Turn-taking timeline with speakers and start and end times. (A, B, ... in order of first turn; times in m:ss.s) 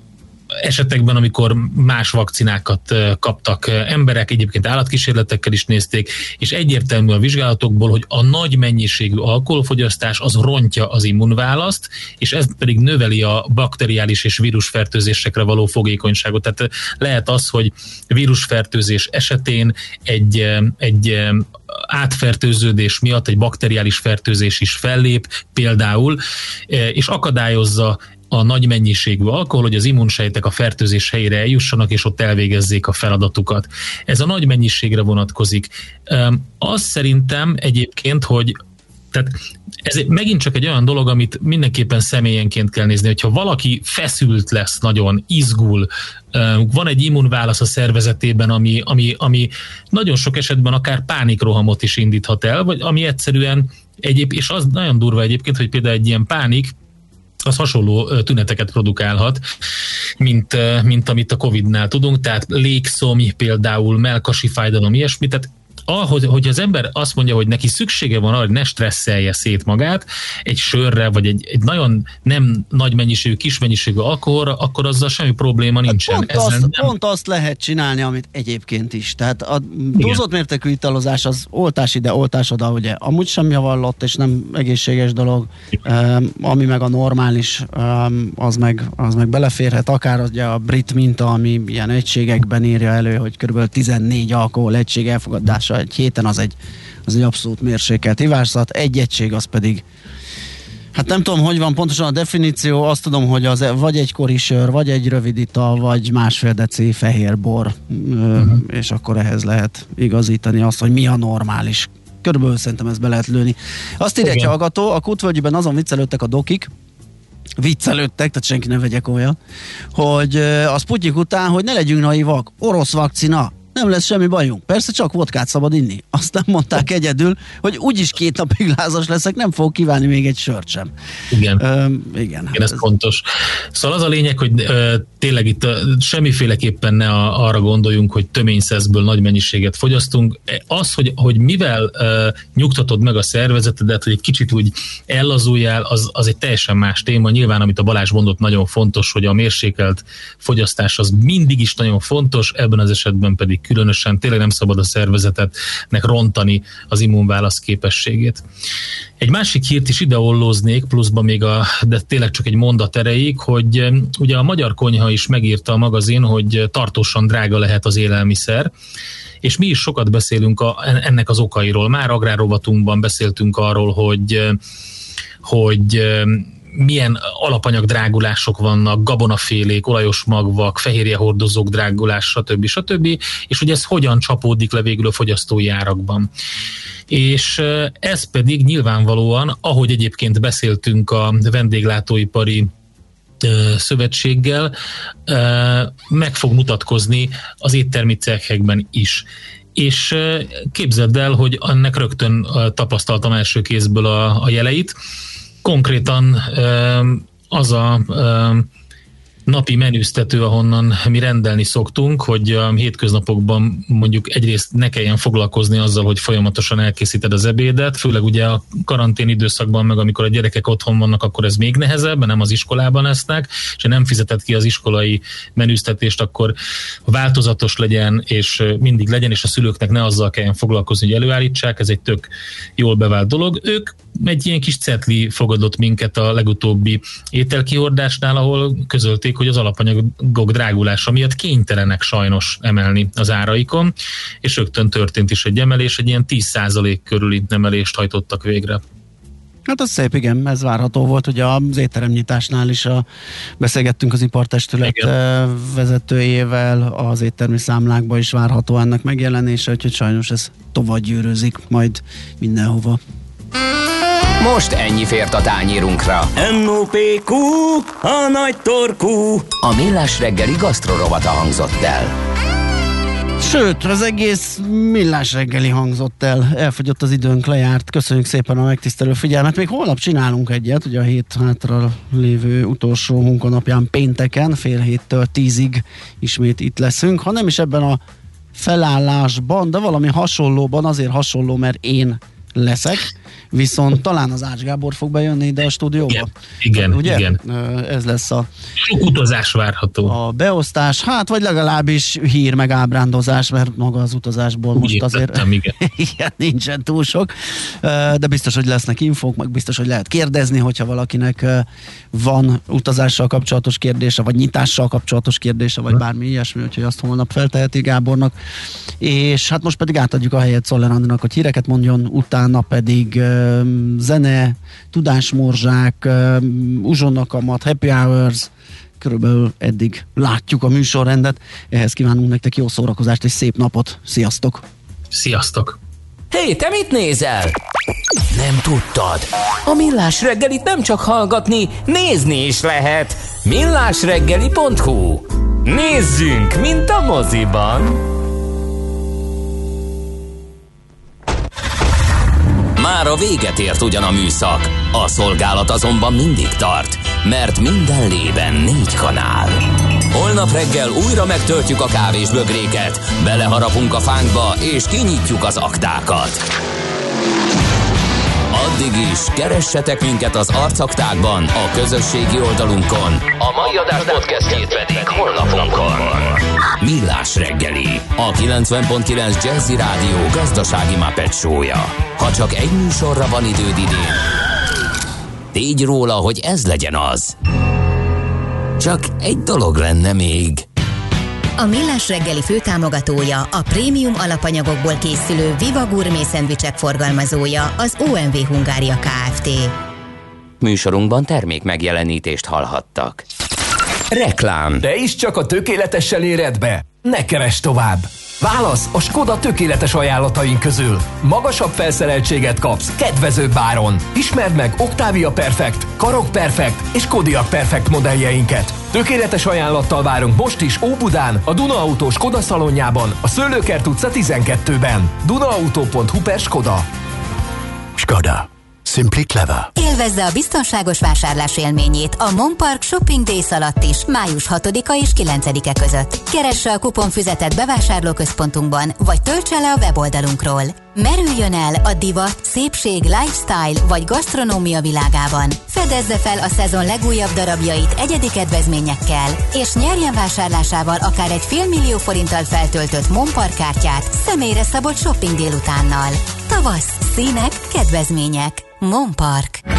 0:00.6-0:38.6 A
0:39.1-0:56.7 A
0:57.4-0:59.4 A
1:00.2-1:16.9 A
1:15.9-1:39.8 B
1:20.0-1:20.2 A
1:40.9-1:56.7 B
1:54.2-1:54.5 A
1:57.6-1:59.4 B
1:59.9-2:10.9 B
2:11.3-2:11.6 A
2:11.6-2:12.8 B
2:12.5-2:38.4 A
2:39.2-2:48.7 A
2:49.4-2:54.6 A
2:55.4-3:06.3 A
3:07.1-3:12.7 A
3:13.4-3:14.7 A
3:15.3-3:19.2 A
3:19.8-3:24.9 A
3:25.6-3:28.7 A
3:29.5-3:46.5 A
3:47.1-4:03.9 A
4:04.4-4:08.8 A
4:09.7-4:13.0 B
4:13.6-4:23.0 B
4:14.8-4:15.1 A
4:24.4-4:32.1 C
4:33.4-4:48.0 B
4:48.5-4:58.5 B
4:56.1-4:57.4 A
4:58.8-5:00.1 A
5:00.0-5:07.3 B
5:04.8-5:05.7 A
5:07.8-5:18.3 B
5:19.0-5:34.6 B
5:35.1-5:35.8 A
5:36.3-5:37.5 C
5:38.3-5:48.0 C
5:52.8-6:06.4 C
6:08.5-6:24.2 C
6:25.5-6:27.3 C
6:28.8-6:30.6 C
6:31.6-6:39.7 D
6:40.6-6:43.2 C
6:44.1-6:44.8 C
6:44.8-7:06.9 E
7:09.7-7:39.6 D